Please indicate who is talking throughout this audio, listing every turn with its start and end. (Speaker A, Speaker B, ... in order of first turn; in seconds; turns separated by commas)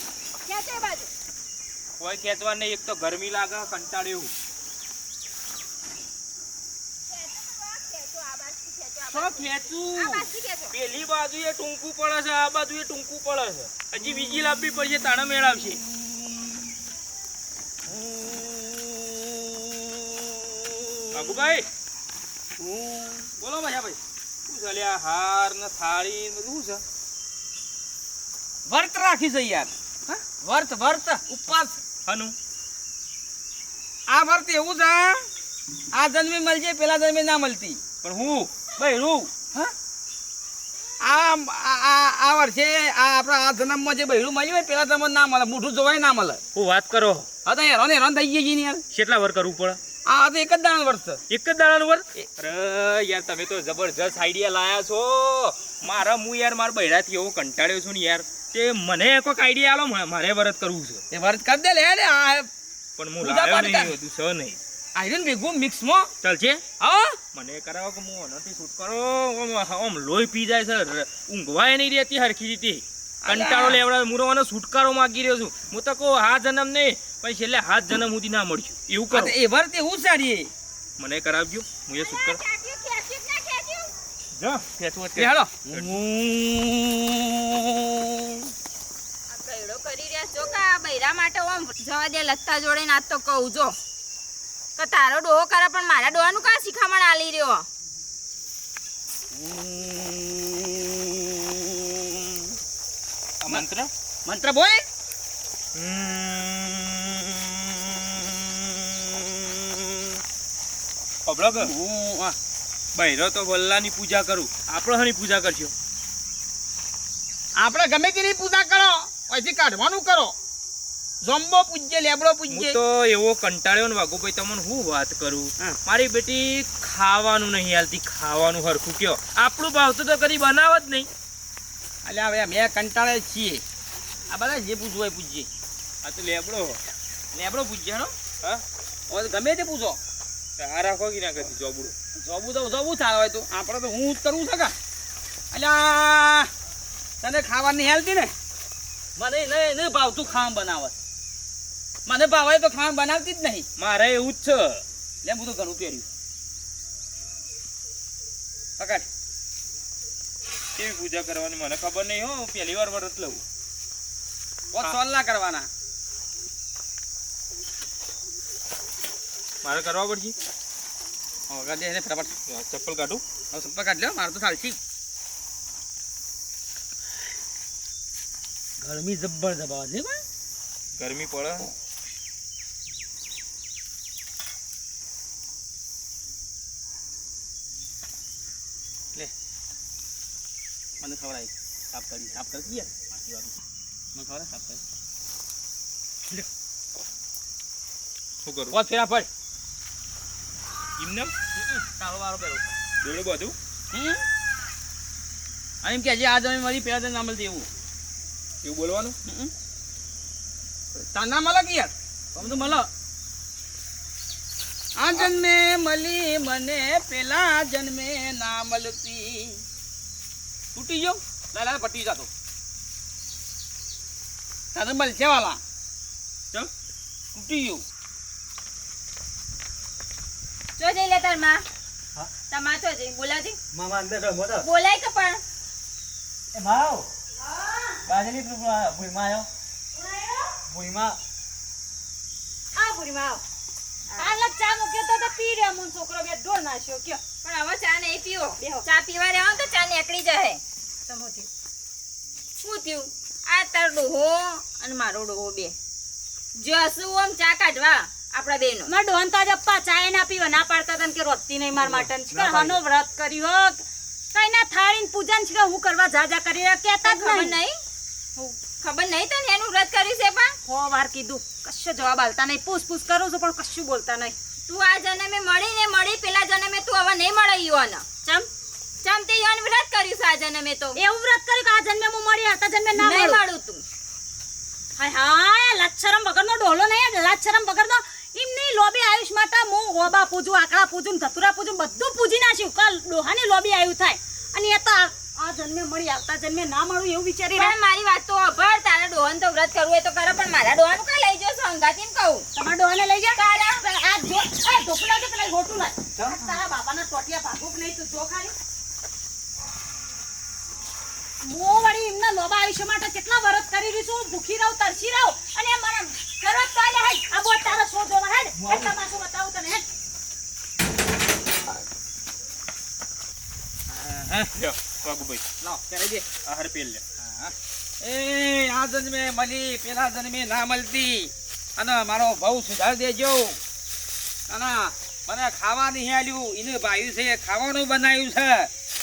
Speaker A: 0.5-1.1, Speaker B: 2.0-4.3, Speaker A: 7.1-10.7, Speaker C: 9.1-10.3, Speaker B: 10.7-15.8, Speaker C: 17.9-19.1, Speaker B: 21.1-21.7, Speaker C: 22.6-24.0, Speaker B: 24.5-26.8, Speaker C: 28.7-31.8, Speaker B: 32.0-32.4, Speaker C: 34.1-35.2, Speaker C: 35.9-37.8, Speaker B: 38.0-38.6, Speaker C: 38.7-39.7, Speaker C: 41.0-46.4, Speaker B: 46.5-47.3, Speaker C: 47.5-48.8, Speaker B: 48.9-49.8, Speaker C: 50.1-51.2, Speaker B: 51.3-61.0, Speaker C: 61.1-62.5, Speaker B: 63.0-64.6, Speaker C: 63.2-63.9, Speaker C: 65.0-66.1, Speaker B: 66.2-66.7, Speaker C: 66.8-67.2, Speaker B: 67.3-79.3, Speaker C: 73.2-73.8, Speaker C: 79.1-80.5, Speaker B: 81.0-82.4, Speaker A: 82.0-83.9, Speaker B: 84.4-86.0, Speaker C: 85.2-85.6, Speaker C: 86.2-87.0, Speaker A: 89.3-93.8, Speaker A: 94.8-97.7, Speaker C: 99.3-100.9, Speaker B: 103.4-103.9, Speaker C: 104.3-104.8, Speaker B: 105.8-110.2, Speaker B: 111.3-111.7, Speaker C: 111.6-112.4, Speaker B: 113.0-115.7, Speaker C: 117.6-120.3, Speaker C: 121.2-122.8, Speaker B: 122.5-131.1, Speaker C: 132.1-133.6, Speaker C: 134.3-135.5, Speaker B: 136.0-136.8, Speaker C: 137.3-138.1, Speaker C: 139.1-140.0, Speaker B: 140.6-141.9, Speaker C: 142.2-144.7, Speaker C: 145.5-146.5, Speaker C: 147.2-148.3, Speaker C: 149.2-150.9, Speaker C: 152.1-153.7, Speaker B: 153.8-154.8, Speaker C: 155.2-156.1, Speaker C: 158.8-159.1, Speaker B: 160.8-163.4, Speaker C: 164.7-165.7, Speaker B: 169.6-170.3, Speaker C: 171.5-172.3, Speaker B: 172.5-173.2, Speaker C: 173.5-174.8, Speaker C: 178.8-180.2, Speaker B: 181.0-181.7, Speaker C: 191.0-193.1, Speaker C: 194.2-194.8, Speaker B: 198.4-198.8, Speaker C: 198.7-199.3, Speaker B: 201.0-201.3, Speaker C: 201.7-202.7, Speaker B: 203.0-203.6, Speaker C: 203.9-204.2, Speaker C: 205.8-207.7, Speaker B: 208.6-209.2, Speaker C: 211.0-212.9, Speaker C: 215.0-219.6, Speaker C: 220.8-222.3, Speaker C: 224.8-225.6, Speaker C: 227.3-227.8, Speaker A: 230.8-231.6, Speaker A: 232.5-233.6, Speaker D: 233.7-234.7, Speaker A: 234.6-235.4, Speaker D: 236.6-237.0, Speaker E: 237.4-238.0, Speaker D: 238.2-239.5, Speaker E: 239.9-240.6, Speaker D: 240.7-241.2, Speaker E: 242.8-243.4, Speaker E: 244.2-247.2, Speaker A: 247.4-250.6, Speaker E: 248.6-248.9, Speaker E: 251.1-251.5, Speaker A: 252.6-255.8, Speaker A: 256.6-258.9, Speaker E: 258.9-267.6, Speaker D: 262.4-262.7, Speaker A: 267.1-267.8, Speaker A: 268.8-270.5, Speaker E: 270.6-274.4, Speaker A: 274.7-278.0, Speaker A: 279.0-280.9, Speaker E: 281.0-283.4, Speaker A: 283.0-283.8, Speaker E: 285.0-297.8, Speaker A: 297.5-302.4, Speaker E: 302.5-308.5, Speaker A: 303.4-303.8, Speaker E: 311.4-319.9, Speaker C: 323.9-324.5, Speaker B: 324.6-325.4, Speaker C: 325.6-326.2, Speaker B: 326.4-327.0, Speaker C: 328.0-333.6, Speaker C: 334.5-338.7